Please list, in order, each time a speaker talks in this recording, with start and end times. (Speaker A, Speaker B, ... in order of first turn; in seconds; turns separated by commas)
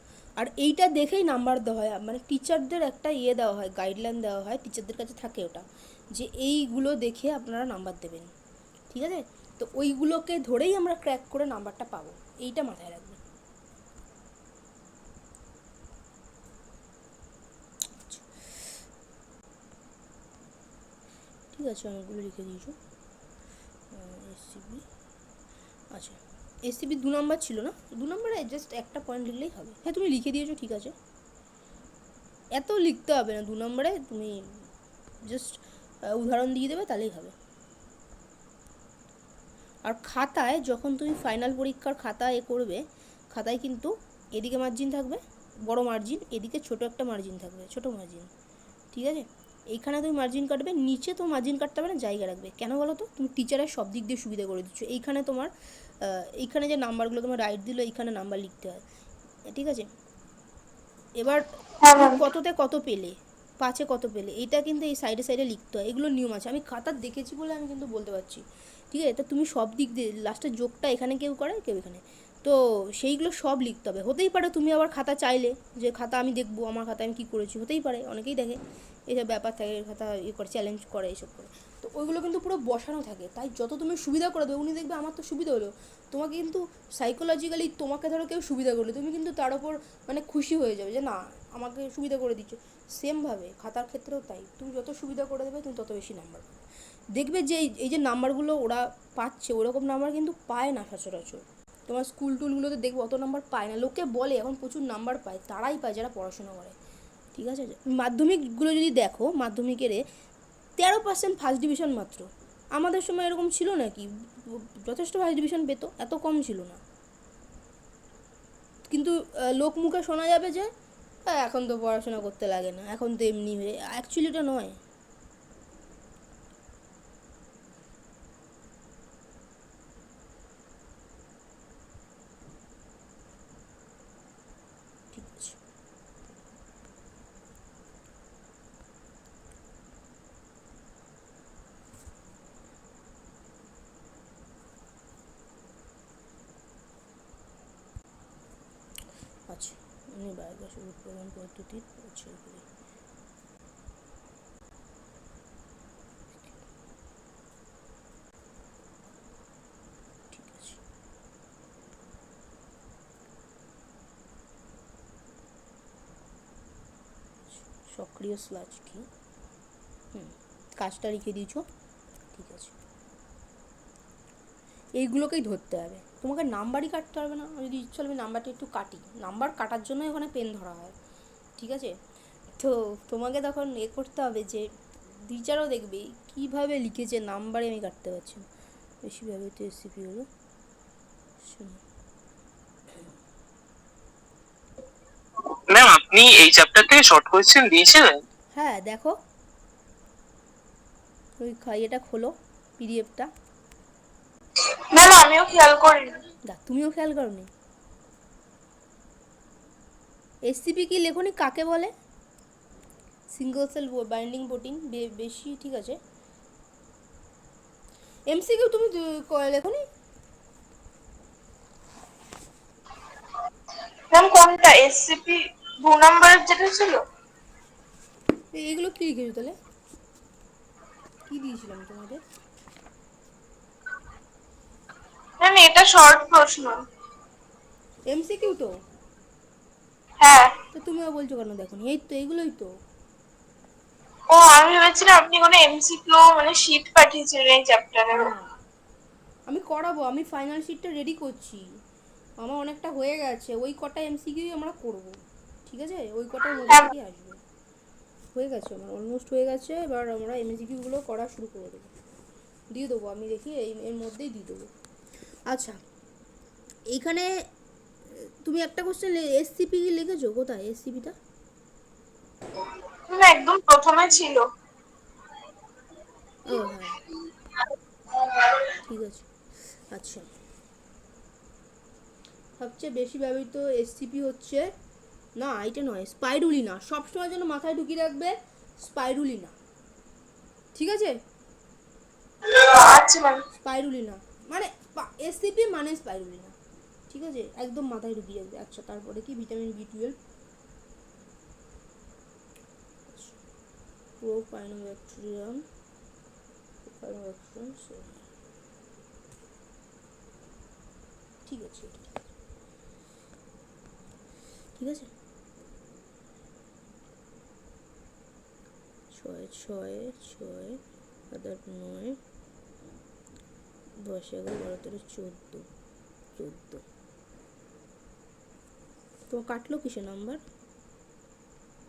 Speaker A: 0.4-8.3, Speaker A: 8.9-13.2, Speaker A: 18.0-18.3, Speaker A: 21.5-22.8, Speaker A: 23.9-24.9, Speaker A: 25.9-30.9, Speaker A: 32.5-34.7, Speaker A: 35.2-35.6, Speaker A: 36.1-37.4, Speaker A: 39.9-48.3, Speaker A: 48.9-55.5, Speaker A: 56.0-58.8, Speaker A: 59.5-59.9, Speaker A: 61.2-96.5, Speaker B: 61.9-62.1, Speaker A: 97.1-106.8, Speaker A: 107.3-110.0, Speaker A: 110.8-116.8, Speaker A: 118.9-120.7, Speaker A: 121.3-124.8, Speaker A: 135.1-135.6, Speaker A: 149.5-152.7, Speaker A: 160.3-160.8, Speaker A: 167.5-169.1, Speaker A: 170.1-171.6, Speaker A: 172.3-172.8, Speaker A: 175.0-180.9, Speaker A: 181.6-181.9, Speaker A: 182.6-184.7, Speaker A: 185.2-188.4, Speaker A: 189.0-190.3, Speaker A: 191.4-191.8, Speaker C: 195.7-198.2, Speaker A: 198.5-199.2, Speaker A: 201.4-203.3, Speaker B: 204.9-206.2, Speaker A: 206.5-207.5, Speaker A: 210.5-211.9, Speaker A: 213.3-216.0, Speaker A: 218.3-219.8, Speaker B: 224.1-227.0, Speaker A: 228.5-229.6, Speaker A: 231.3-232.2, Speaker B: 235.4-236.8, Speaker A: 238.1-238.7, Speaker B: 240.2-240.5, Speaker A: 240.7-242.7, Speaker B: 244.4-248.0, Speaker A: 248.1-248.5, Speaker A: 249.5-251.6, Speaker A: 252.4-255.2, Speaker A: 255.7-257.4, Speaker A: 258.4-261.9, Speaker A: 262.7-264.7, Speaker A: 265.5-265.8, Speaker A: 266.9-267.3, Speaker A: 268.2-271.1, Speaker B: 273.1-274.4, Speaker A: 276.5-277.0, Speaker B: 278.1-278.5, Speaker A: 278.9-279.3, Speaker A: 279.9-280.3, Speaker A: 282.6-284.6, Speaker A: 285.4-289.5, Speaker A: 290.8-291.2, Speaker B: 292.7-293.4, Speaker A: 293.6-296.6, Speaker A: 297.1-300.1, Speaker A: 303.1-303.4, Speaker A: 304.2-305.6, Speaker A: 306.9-308.2, Speaker A: 311.5-312.2, Speaker A: 314.8-315.1, Speaker A: 319.1-322.2, Speaker A: 324.0-325.6, Speaker A: 326.4-326.8, Speaker A: 329.3-330.4